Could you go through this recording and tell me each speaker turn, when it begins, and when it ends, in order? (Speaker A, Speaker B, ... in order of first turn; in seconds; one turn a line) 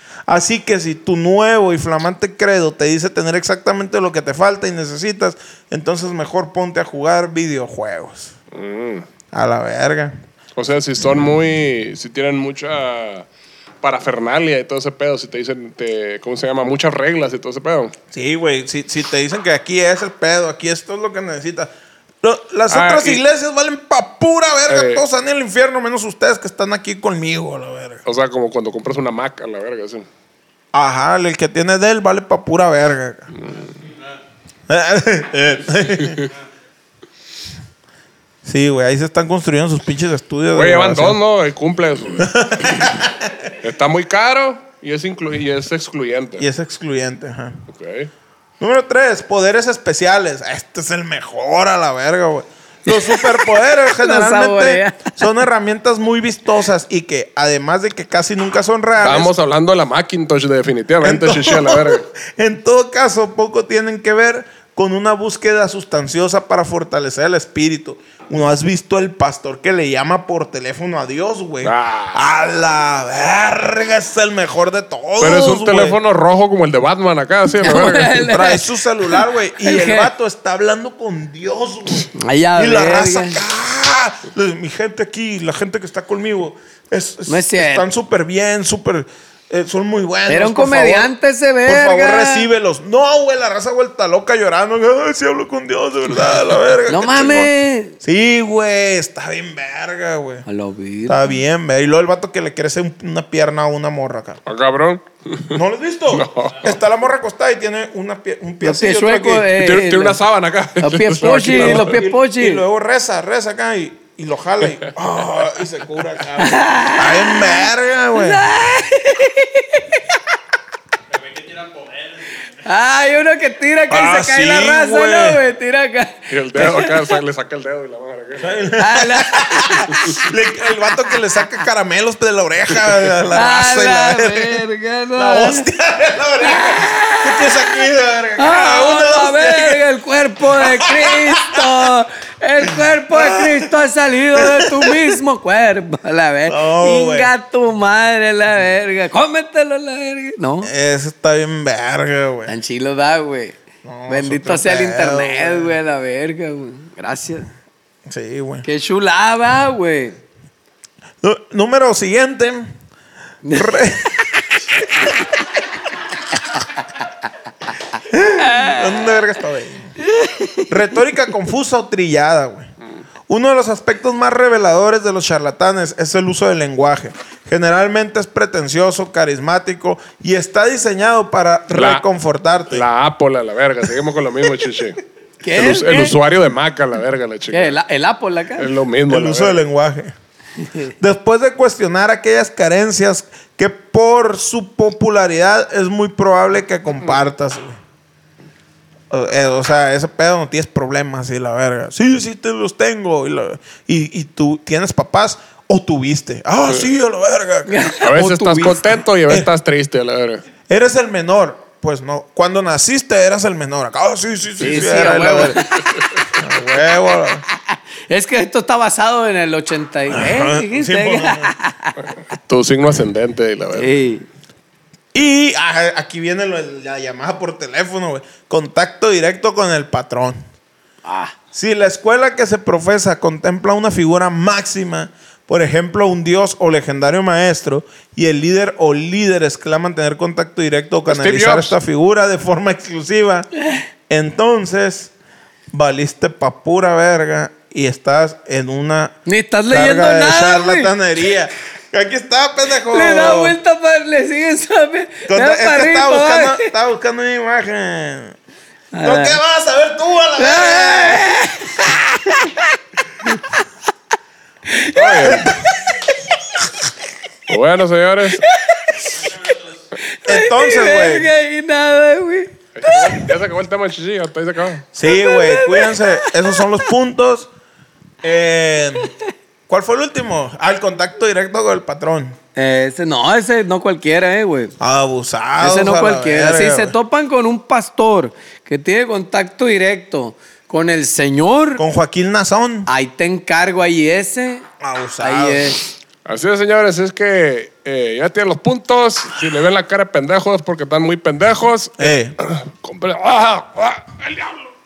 Speaker A: 0.3-8.3
Speaker B: 8.5-9.0
Speaker A: 9.3-10.2
Speaker B: 10.6-13.3
Speaker B: 13.8-17.9
Speaker A: 18.1-21.7
Speaker A: 22.2-28.0
Speaker B: 22.7-23.2
Speaker B: 24.7-25.0
Speaker B: 28.0-30.1
Speaker A: 30.7-33.3
Speaker B: 33.4-33.7
Speaker A: 34.7-36.3
Speaker A: 38.4-41.2
Speaker B: 40.5-42.3
Speaker A: 42.2-43.3
Speaker B: 43.6-46.5
Speaker A: 46.4-47.6
Speaker B: 47.7-48.1
Speaker A: 48.6-59.3
Speaker C: 53.0-55.2
Speaker B: 59.0-62.0
Speaker A: 61.0-76.0
Speaker B: 71.6-72.2
Speaker B: 75.2-78.3
Speaker C: 77.6-80.1
Speaker A: 78.2-91.1
Speaker C: 82.2-83.4
Speaker C: 87.3-87.9
Speaker C: 90.3-92.5
Speaker A: 91.7-100.5
Speaker C: 96.9-98.0
Speaker C: 100.5-101.3
Speaker A: 101.1-104.4
Speaker B: 104.5-105.6
Speaker A: 105.5-109.5
Speaker B: 106.1-106.7
Speaker C: 108.6-110.2
Speaker B: 109.6-112.0
Speaker C: 110.8-112.6
Speaker A: 111.4-118.5
Speaker C: 116.4-117.6
Speaker C: 118.2-120.0
Speaker C: 122.6-127.2
Speaker A: 123.9-125.4
Speaker B: 126.3-128.6
Speaker A: 128.4-134.6
Speaker C: 128.8-129.9
Speaker C: 133.3-135.7
Speaker A: 135.2-139.8
Speaker C: 136.4-137.7
Speaker C: 138.4-150.7
Speaker A: 140.5-141.9
Speaker A: 143.1-143.7
Speaker A: 144.3-145.2
Speaker A: 146.5-147.3
Speaker A: 150.6-152.5
Speaker C: 152.4-153.6
Speaker A: 153.8-155.8
Speaker C: 154.1-157.5
Speaker A: 158.1-158.7
Speaker C: 158.6-160.2
Speaker A: 161.2-162.7
Speaker C: 163.4-163.9
Speaker A: 163.5-164.1
Speaker A: 164.7-165.1
Speaker C: 164.8-165.1
Speaker A: 168.1-169.9
Speaker C: 168.3-169.0
Speaker C: 170.0-170.7
Speaker A: 170.7-172.7
Speaker A: 173.3-182.8
Speaker B: 181.7-182.0
Speaker B: 182.7-185.0
Speaker C: 185.4-186.2
Speaker B: 185.5-187.8
Speaker C: 187.5-188.7
Speaker B: 188.6-189.6
Speaker A: 189.1-190.1
Speaker A: 191.0-197.8
Speaker A: 199.1-207.9
Speaker C: 207.7-208.8
Speaker B: 208.0-210.4
Speaker A: 210.7-215.6
Speaker C: 214.6-216.0
Speaker A: 216.3-217.4
Speaker C: 218.1-222.1
Speaker A: 220.1-221.5
Speaker B: 222.5-223.9
Speaker C: 223.7-224.2
Speaker A: 225.1-230.4
Speaker C: 231.0-231.3
Speaker A: 231.5-243.5
Speaker B: 241.1-241.8
Speaker A: 244.1-245.1
Speaker A: 245.7-249.2
Speaker C: 249.2-250.9
Speaker A: 249.7-253.6
Speaker C: 252.9-256.7
Speaker A: 255.3-258.4
Speaker C: 258.9-259.4
Speaker A: 259.0-261.3
Speaker C: 260.4-262.6
Speaker C: 263.2-263.6
Speaker C: 264.7-266.0
Speaker B: 264.9-265.5
Speaker B: 267.5-268.4
Speaker C: 268.4-273.2
Speaker A: 270.2-271.3
Speaker B: 272.8-274.9
Speaker A: 274.9-277.5
Speaker C: 275.1-276.6
Speaker A: 278.2-279.1
Speaker A: 279.7-282.4
Speaker C: 282.6-284.7
Speaker A: 284.8-286.9
Speaker C: 285.6-291.8
Speaker A: 291.8-292.9
Speaker C: 292.9-294.7
Speaker A: 294.8-295.6
Speaker C: 295.2-295.9
Speaker B: 296.2-304.7
Speaker A: 302.0-302.3